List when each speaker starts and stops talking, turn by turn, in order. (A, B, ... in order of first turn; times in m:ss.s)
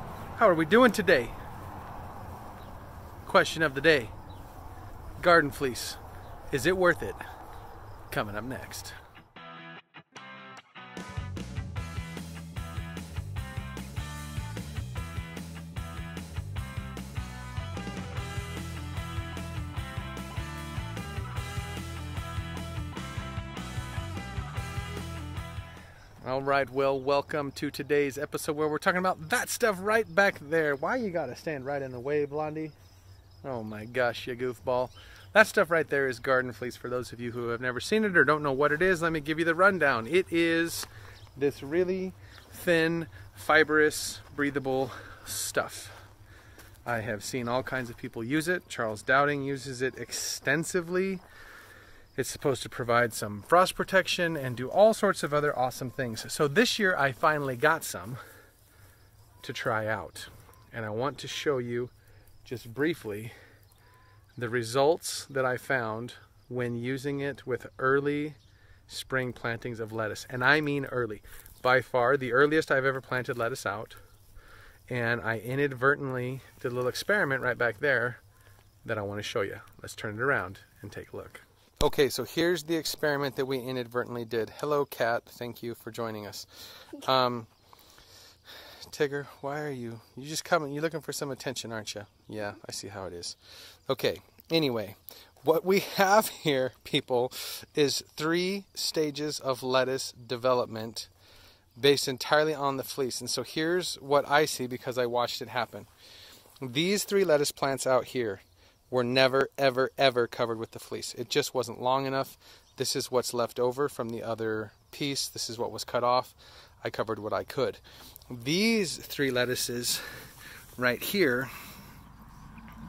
0:00.4-0:01.4 A
0:03.2-0:04.1 A
0:05.2-0:07.2 A
0:08.1-0:09.0 A
0:26.2-0:32.7 A
0:33.4-0:46.0 A
0:46.9-0:51.2 A
0:52.2-0:58.2 A
0:59.4-1:01.9 A
1:02.4-1:03.4 A
1:04.4-1:08.4 A
1:08.9-1:14.0 A
1:14.9-1:18.2 A
1:18.8-1:27.5 A
1:28.8-1:41.1 A
1:41.8-1:45.9 A
1:46.6-2:00.0 A
2:00.8-2:01.5 A